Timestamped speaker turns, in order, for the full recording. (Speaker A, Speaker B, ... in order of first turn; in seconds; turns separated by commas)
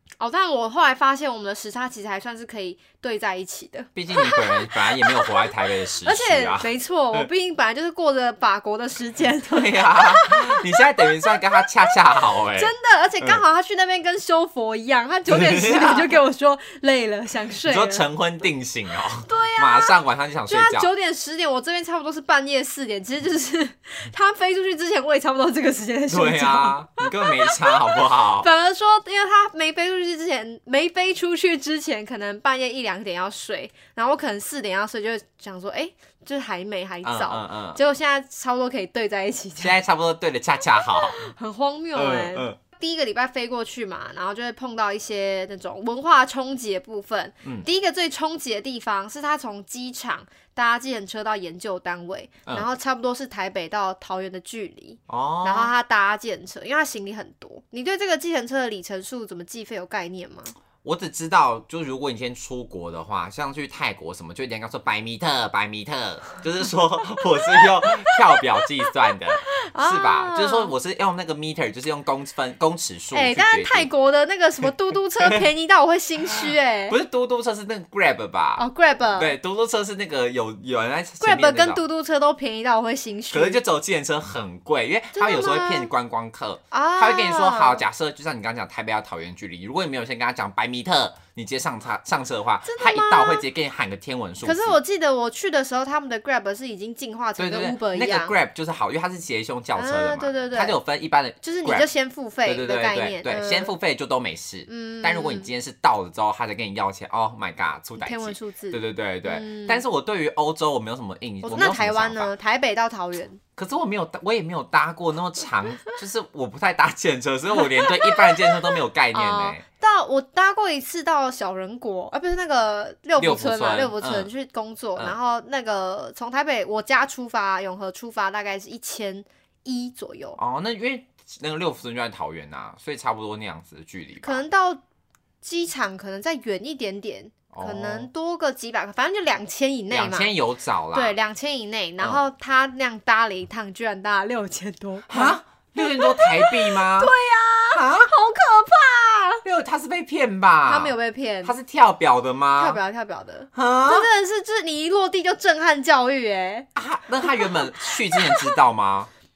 Speaker A: 0.2-5.5, Speaker B: 3.9-7.3, Speaker A: 6.0-11.4, Speaker B: 9.2-13.4, Speaker A: 12.5-18.0, Speaker B: 15.3-16.1, Speaker B: 17.6-20.9, Speaker A: 19.2-19.9, Speaker A: 20.5-39.8, Speaker B: 26.1-28.5, Speaker B: 37.0-37.8, Speaker B: 39.6-41.2, Speaker A: 41.1-60.5, Speaker B: 41.9-42.6, Speaker B: 55.1-55.7, Speaker B: 60.8-73.9, Speaker A: 69.3-70.7, Speaker A: 73.1-77.0, Speaker B: 76.3-81.8, Speaker A: 78.5-79.3, Speaker A: 81.2-83.6, Speaker B: 83.3-94.8, Speaker A: 85.1-85.9, Speaker A: 86.7-87.8, Speaker A: 92.7-93.5, Speaker A: 94.4-98.3, Speaker B: 97.4-101.9, Speaker A: 99.8-100.8, Speaker A: 101.4-103.7, Speaker B: 102.4-112.3, Speaker A: 104.7-105.5, Speaker A: 108.0-109.8, Speaker A: 111.4-113.4, Speaker B: 113.6-119.6, Speaker A: 117.8-118.5, Speaker A: 119.1-130.4, Speaker B: 123.2-124.3, Speaker B: 130.4-134.4, Speaker A: 134.2-134.8, Speaker A: 135.4-140.3, Speaker B: 137.5-138.1, Speaker B: 139.9-141.2, Speaker A: 140.9-149.4, Speaker B: 145.1-147.1, Speaker B: 147.7-148.1, Speaker B: 149.4-152.8, Speaker A: 150.7-151.6, Speaker A: 152.6-156.7, Speaker B: 153.5-154.1, Speaker B: 156.8-159.1, Speaker A: 157.2-158.5